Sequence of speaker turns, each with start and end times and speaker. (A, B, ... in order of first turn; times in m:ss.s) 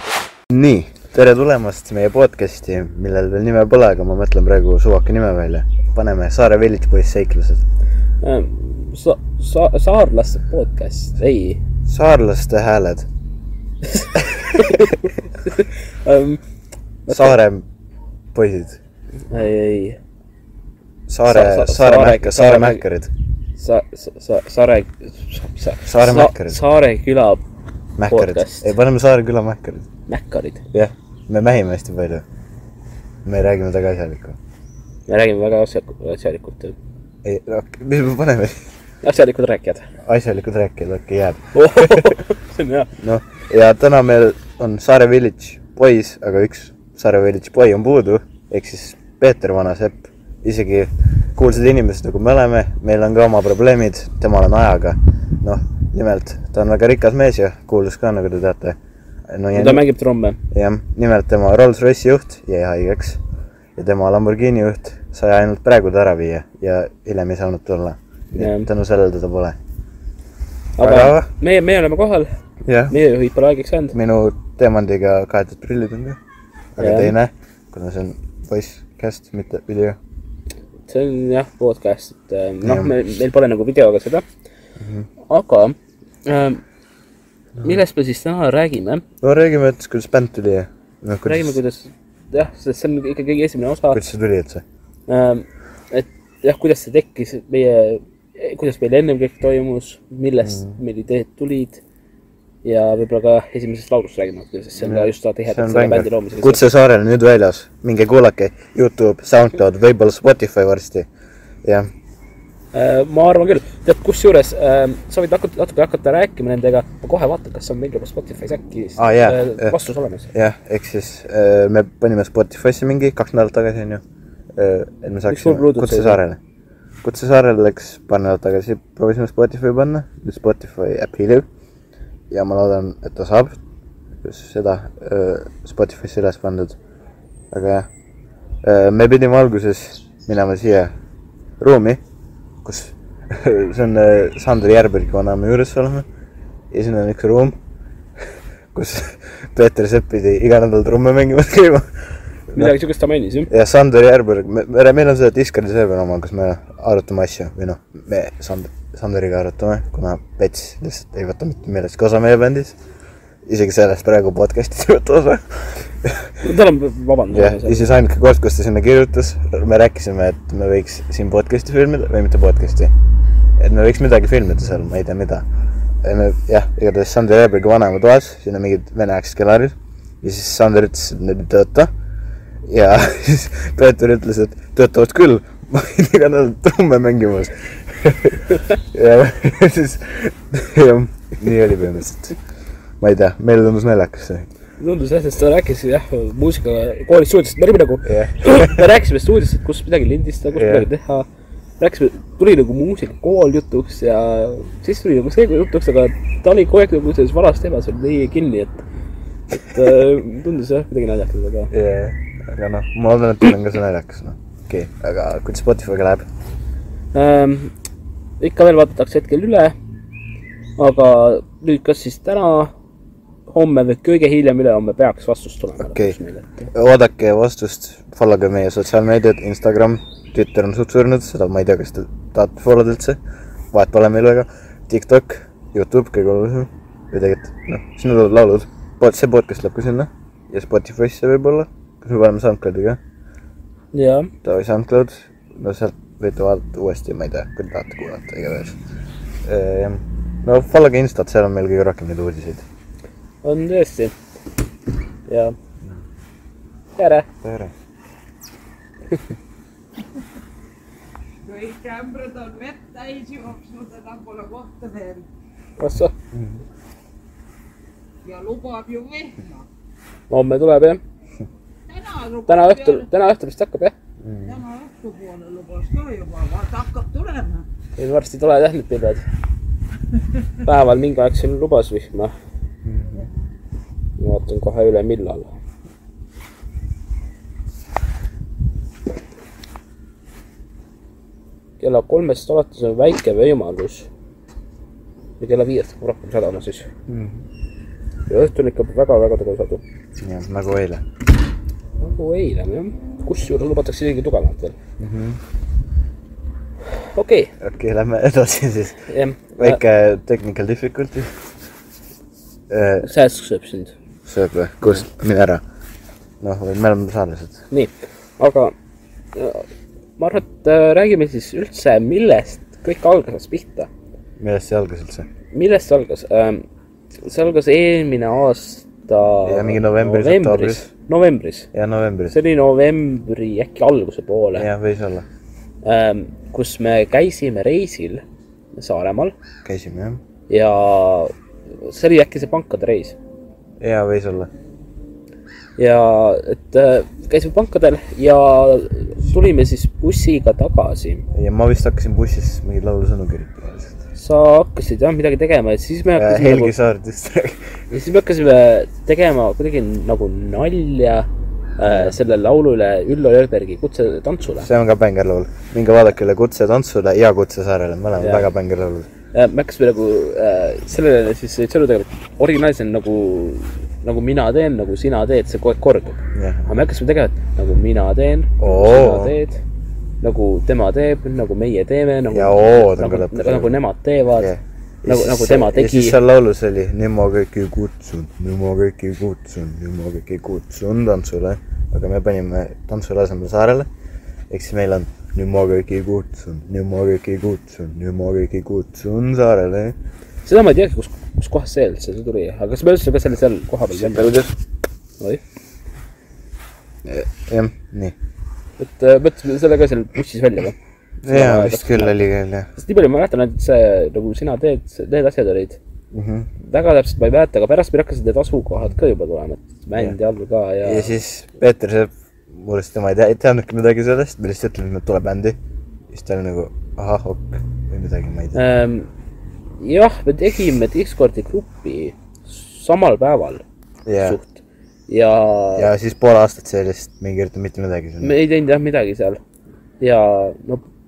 0:00.5-0:07.7 A
0:08.2-0:11.6 B
0:11.9-0:13.1 A
0:13.8-0:16.4 B
0:14.4-0:15.0 A
0:17.1-0:17.4 B
0:17.1-0:17.7 A
0:18.3-0:18.8 A
0:19.3-0:20.0 B
0:21.1-0:23.1 A
0:21.3-0:22.8 B
0:23.6-0:27.4 B
0:25.9-0:26.6 A
0:28.0-0:29.9 A
0:28.1-0:28.7 B
0:30.1-0:30.6 B
0:30.7-0:32.2 A
0:33.2-0:34.4 A
0:35.1-0:36.8 B
0:37.2-0:38.6 A
0:39.0-0:39.9 B
0:40.0-0:42.2 A
0:41.6-0:42.9 B
0:43.0-0:58.8 A
0:59.3-0:59.8 A
0:59.6-1:00.4 B
1:00.5-1:03.2 A
1:03.8-1:09.6 A
1:08.3-1:08.7 B
1:10.8-1:12.3 B
1:10.8-1:11.3 A
1:12.6-1:13.0 A
1:12.9-1:14.0 B
1:13.9-1:16.2 A
1:16.8-1:20.0 A
1:16.8-1:17.1 B
1:20.9-1:24.2 B
1:22.6-1:22.9 A
1:24.8-1:25.1 A
1:25.3-1:26.6 B
1:27.6-1:29.0 B
1:29.2-1:31.6 A
1:31.2-1:34.0 B
1:33.9-1:34.6 A
1:35.1-1:41.8 B
1:40.4-1:40.8 A
1:42.6-1:46.6 B
1:44.8-1:51.1 A
1:51.6-1:51.9 A
1:52.7-2:00.3 B
1:59.0-1:59.8 A
2:00.3-2:04.0 A
2:04.6-2:06.4 A
2:05.3-2:06.2 B
2:07.0-2:11.5 A
2:12.3-2:13.6 A
2:14.2-2:16.8 A
2:17.5-2:17.9 A
2:18.6-2:20.9 A
2:21.6-2:22.0 A
2:22.6-2:26.1 A
2:26.7-2:27.6 A
2:28.7-2:31.9 A
2:32.5-2:32.8 A
2:32.6-2:33.5 B
2:33.5-2:42.8 A
2:43.5-2:46.4 A
2:46.4-2:47.9 B
2:47.3-2:52.9 A
2:53.6-2:55.5 A
2:56.0-3:01.9 A
3:02.7-3:12.4 A
3:13.0-3:14.5 A
3:14.8-3:21.3 B
3:18.1-3:18.9 A
3:20.6-3:20.9 A
3:21.8-3:28.8 B
3:29.5-3:31.7 B
3:31.7-3:36.3 A
3:37.1-3:37.7 B
3:38.4-3:39.7 B
3:40.8-3:42.7 B
3:43.5-3:46.7 B
3:45.8-3:46.2 A
3:46.7-3:53.2 A
3:53.7-4:03.0 A
4:03.9-4:04.3 B
4:04.4-4:08.8 A
4:09.4-4:12.7 A
4:13.4-4:14.2 B
4:15.3-4:15.6 B
4:17.0-4:17.3 B
4:17.4-4:17.7 A
4:21.4-4:25.2 C
4:25.8-4:26.1 B
4:26.3-4:26.6 A
4:28.2-4:29.7 C
4:30.3-4:31.0 B
4:31.9-4:33.1 C
4:32.5-4:33.9 B
4:34.2-4:34.6 A
4:34.4-4:37.7 C
4:38.0-4:39.2 B
4:40.6-4:42.3 B
4:42.8-4:43.3 A
4:44.2-4:45.5 B
4:51.8-4:54.1 B
4:55.4-4:56.9 B
4:57.1-4:57.4 A
4:58.3-4:59.8 B
5:00.2-5:01.0 A
5:02.0-5:04.8 B
5:05.0-5:05.4 A
5:07.1-5:07.5 B
5:07.6-5:09.0 A
5:09.1-5:09.8 B
5:09.6-5:11.3 A
5:12.7-5:13.1 A
5:13.0-5:13.9 B
5:14.3-5:15.6 A
5:16.4-5:17.6 A
5:17.7-5:18.7 B
5:19.4-5:19.7 B
5:20.2-5:23.9 B
5:24.4-5:25.3 A
5:25.5-5:26.6 B
5:27.2-5:31.7 B
5:29.4-5:30.9 A
5:31.7-5:32.4 A
5:32.3-5:34.7 B
5:34.6-5:35.2 A
5:35.8-5:38.2 B
5:38.8-5:39.4 B
5:39.6-5:40.2 A
5:40.5-5:41.3 B
5:41.8-5:43.2 B
5:43.8-5:44.5 A
5:45.8-5:51.3 B
5:51.3-5:53.9 A
5:54.2-5:56.8 B
5:56.2-5:57.7 A
5:57.9-6:04.7 B
6:01.9-6:02.2 A
6:04.6-6:09.1 A
6:08.2-6:08.5 B
6:09.3-6:19.6 B
6:16.4-6:16.7 A
6:18.6-6:19.3 A
6:20.2-6:24.5 B
6:22.3-6:23.8 A
6:24.4-6:33.9 A
6:25.1-6:26.2 B
6:34.5-6:40.0 A
6:40.4-6:44.4 B
6:43.9-6:44.6 A
6:47.0-6:48.2 A
6:48.8-6:50.8 B
6:51.2-6:52.7 A
6:51.3-6:52.2 B
6:52.8-6:55.8 B
6:56.1-6:56.5 A
6:56.6-7:01.2 B
7:00.8-7:05.6 A
7:06.1-7:08.6 A
7:08.5-7:09.1 B
7:09.8-7:13.6 B
7:14.1-7:14.4 A
7:14.2-7:15.9 B
7:15.8-7:18.4 A
7:18.2-7:19.4 B
7:20.0-7:20.8 B